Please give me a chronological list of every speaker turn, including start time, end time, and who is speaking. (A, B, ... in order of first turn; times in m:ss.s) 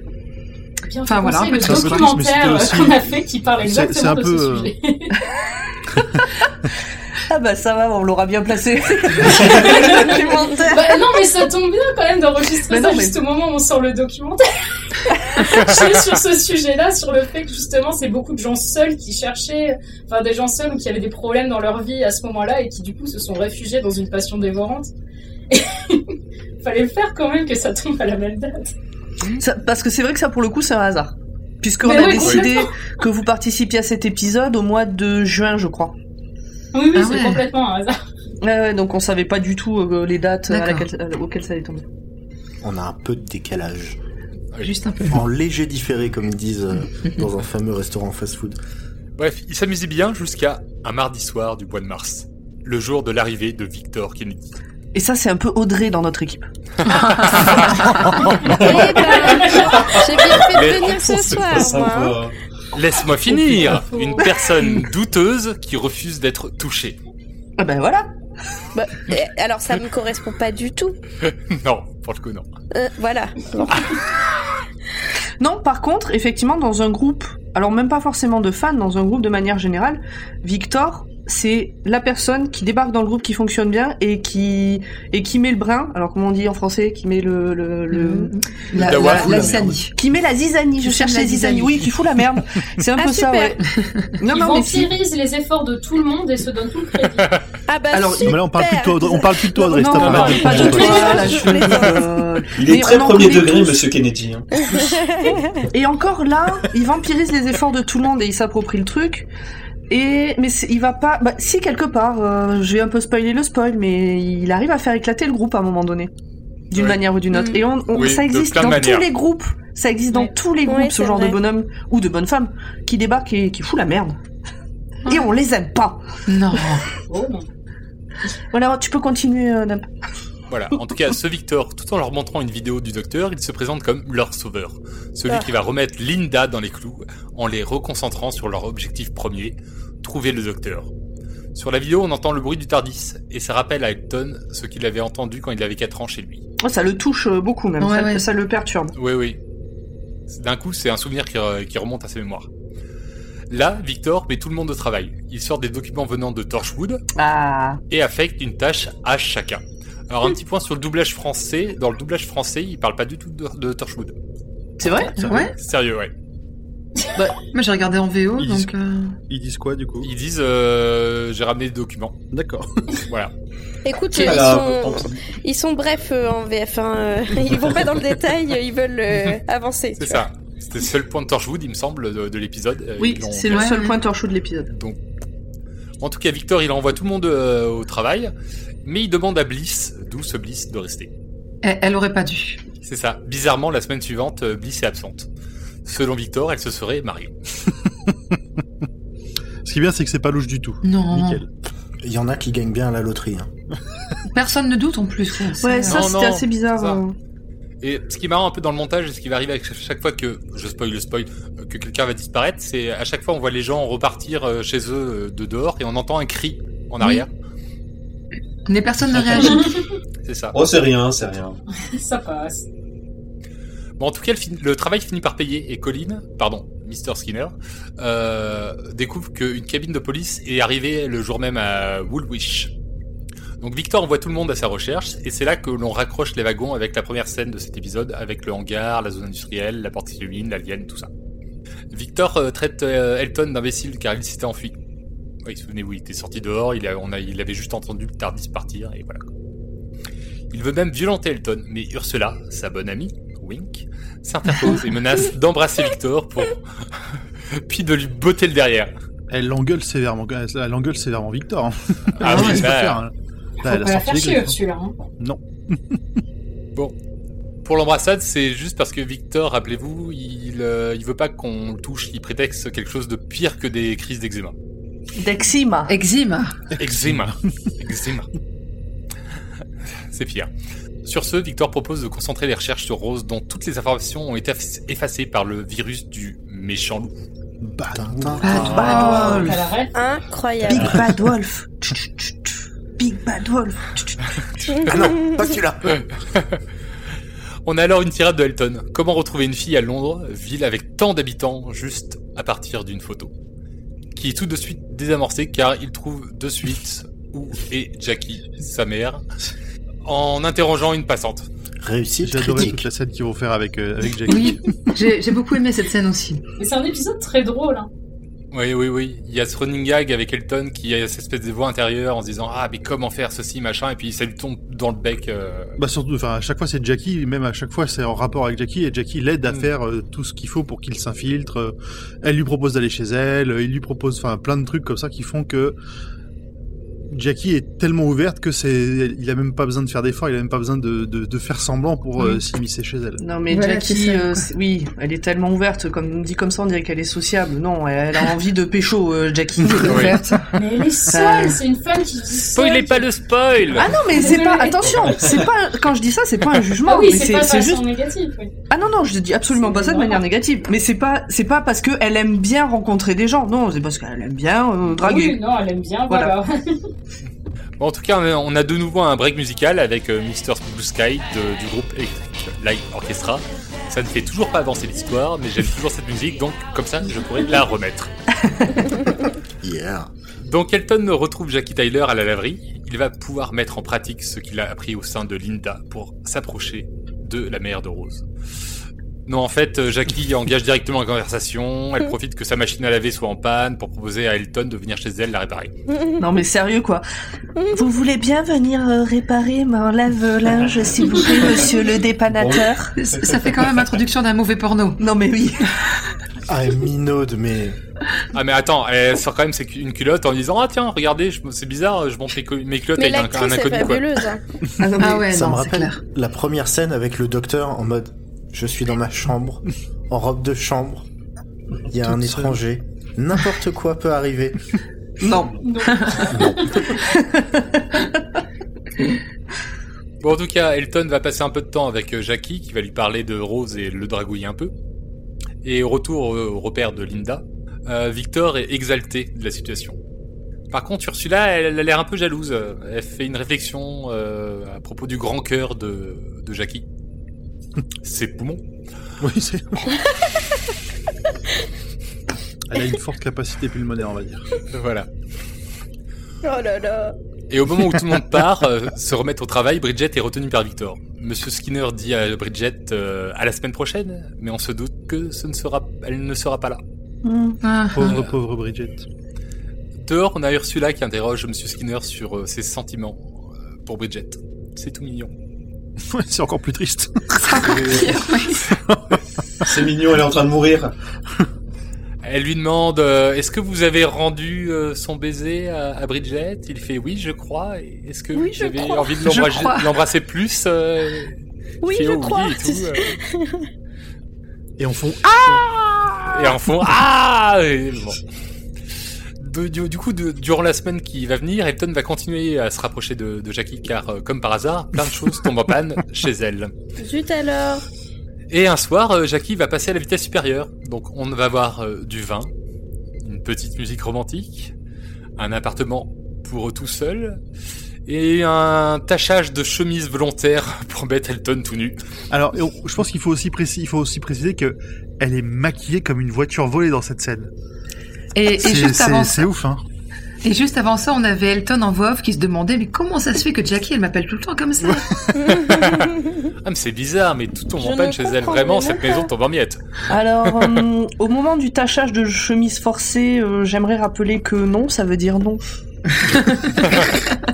0:00.9-0:05.2 A
0:01.0-0:02.2 B
0:01.6-0:04.7 C
0:07.3-0:11.2 D
0:09.3-0:24.9 A
0:12.7-0:13.2 D
0:25.5-0:28.7 A
0:29.4-0:35.9 D
0:31.8-0:33.0 A
0:36.7-0:38.0 A
0:36.9-0:37.5 B
0:38.4-0:41.8 D
0:40.5-0:40.9 B
0:42.6-0:44.0 E
0:44.6-0:45.2 B
0:45.1-0:48.6 E
0:49.2-0:54.5 F
0:54.9-0:56.5 D
0:56.9-0:58.2 B
0:56.9-0:58.1 F
0:58.4-1:02.3 G
0:58.5-1:02.2 H
0:58.5-1:00.1 A
1:00.4-1:01.0 F
1:02.7-1:07.0 F
1:03.6-1:04.7 A
1:07.6-1:08.1 D
1:08.7-1:11.0 H
1:11.2-1:12.4 F
1:12.7-1:14.0 H
1:15.4-1:33.6 D
1:27.9-1:29.9 B
1:28.8-1:29.6 F
1:30.8-1:31.9 B
1:33.0-1:33.6 H
1:34.2-1:34.9 D
1:34.2-1:37.3 A
1:37.7-1:39.8 H
1:37.9-1:38.4 D
1:38.2-1:42.0 C
1:39.7-1:43.8 D
1:39.8-1:41.3 A
1:40.4-1:41.9 G
1:40.5-1:41.9 H
1:42.5-1:44.9 G
1:44.6-1:45.6 H
1:45.7-1:49.3 D
1:49.9-1:56.1 D
1:56.7-2:04.2 D
1:56.7-1:57.0 F
1:57.3-1:57.6 B
1:57.9-1:59.1 F
2:00.6-2:01.4 H
2:05.0-2:05.3 B
2:05.0-2:06.1 D
2:06.2-2:06.9 B
2:07.1-2:07.5 A
2:08.5-2:09.9 D
2:10.5-2:20.9 F
2:21.5-2:26.4 F
2:26.6-2:28.9 D
2:27.8-2:28.2 B
2:28.9-2:29.4 F
2:30.3-2:32.5 F
2:33.5-2:37.0 F
2:37.2-2:37.8 D
2:37.9-2:44.1 F
2:44.8-2:45.2 D
2:45.2-2:45.5 B
2:45.2-2:45.5 C
2:45.5-2:46.1 F
2:47.5-2:49.2 B
2:48.4-2:48.7 C
2:49.3-2:50.1 C
2:50.0-2:52.2 F
2:52.3-2:52.9 C
2:53.1-2:53.3 F
2:53.8-3:00.2 H
2:54.1-2:55.2 G
2:54.1-2:54.5 D
3:00.0-3:03.7 F
3:03.0-3:04.7 D
3:03.5-3:04.0 B
3:04.7-3:05.0 F
3:06.0-3:08.3 F
3:08.8-3:11.1 F
3:11.6-3:12.6 B
3:12.8-3:15.3 F
3:15.8-3:17.3 F
3:19.6-3:21.4 C
3:20.8-3:21.4 B
3:22.0-3:23.5 E
3:24.3-3:26.0 B
3:25.6-3:27.1 D
3:25.9-3:27.0 F
3:27.8-3:37.3 F
3:38.7-3:39.7 B
3:39.4-3:39.8 A
3:40.2-3:40.6 F
3:40.5-3:41.6 G
3:41.8-3:42.6 A
3:44.0-3:52.7 F
3:53.6-4:01.1 F
4:01.9-4:04.8 F
4:05.4-4:09.3 F
4:10.5-4:16.6 F
4:17.5-4:18.9 F
4:19.3-4:24.6 C
4:22.2-4:23.0 F
4:22.2-4:22.7 B
4:23.6-4:24.9 A
4:25.2-4:26.0 C
4:27.6-4:34.5 F
4:35.2-4:35.9 D
4:35.9-4:36.6 B
4:36.7-4:37.3 C
4:36.8-4:38.3 F
4:40.1-4:40.5 F
4:41.0-4:47.1 F
4:47.6-4:48.8 C
4:47.9-4:49.6 E
4:48.4-4:49.6 B
4:48.6-4:49.4 D
4:48.7-4:50.0 A
4:49.9-4:51.0 H
4:50.6-4:54.4 D
4:50.7-4:51.0 E
4:54.8-4:55.3 H
4:54.9-4:56.0 E
4:56.3-4:56.6 F
4:57.6-5:03.3 F
5:04.1-5:09.2 F
5:10.0-5:11.5 F
5:11.8-5:12.8 E
5:12.2-5:14.8 C
5:14.3-5:16.4 B
5:16.6-5:17.9 A
5:18.5-5:25.8 F
5:25.8-5:35.8 C
5:37.1-5:43.2 C
5:43.2-5:50.2 D
5:43.5-5:44.4 B
5:49.6-5:50.7 B
5:49.8-5:50.2 F
5:50.5-5:53.1 A
5:51.1-5:51.6 D
5:52.5-5:53.9 F
5:53.7-5:57.8 D
5:53.8-5:55.1 A
5:56.8-5:58.5 A
5:58.7-6:05.4 D
5:59.5-6:00.2 A
6:04.9-6:06.9 A
6:07.8-6:18.1 F
6:19.6-6:20.1 E
6:20.4-6:28.2 F
6:29.3-6:35.7 F
6:36.2-6:37.0 D
6:37.7-6:42.9 D
6:42.3-6:43.3 G
6:43.0-6:45.0 B
6:45.0-6:45.6 D
6:46.5-6:47.8 E
6:48.3-6:54.1 F
6:53.0-6:54.4 H
6:54.8-6:55.4 D
6:54.9-6:56.0 B
6:55.3-7:01.0 E
7:01.9-7:04.6 E
7:02.1-7:02.6 C
7:05.2-7:06.2 D
7:05.6-7:07.0 A
7:06.3-7:06.7 E
7:07.0-7:08.2 D
7:10.2-7:14.7 F
7:15.6-7:20.0 F
7:20.7-7:26.8 F
7:28.0-7:28.6 F
7:29.2-7:30.0 C
7:32.7-7:34.5 C
7:34.7-7:35.1 F
7:36.4-7:37.2 H
7:37.5-7:46.8 F
7:47.2-7:47.6 D
7:47.6-7:48.2 B
7:47.9-7:49.0 C
7:48.0-7:48.3 F
7:50.0-7:55.3 F
7:56.0-7:59.7 C
7:57.4-7:58.6 B
7:59.6-8:00.9 G
8:02.2-8:13.2 F
8:08.3-8:09.1 H
8:09.2-8:09.9 B
8:11.8-8:13.7 H
8:14.8-8:16.6 C
8:16.3-8:18.2 F
8:19.4-8:26.7 F
8:27.0-8:27.8 H
8:28.5-8:32.5 F
8:33.2-8:34.7 F
8:35.4-8:37.4 F
8:38.0-8:42.0 F
8:42.3-8:47.5 C
8:48.3-8:49.5 B
8:48.5-8:49.8 C
8:50.4-8:55.1 B
8:55.5-8:56.3 H
8:55.6-9:00.8 F
8:57.8-8:59.3 H
9:00.1-9:05.6 D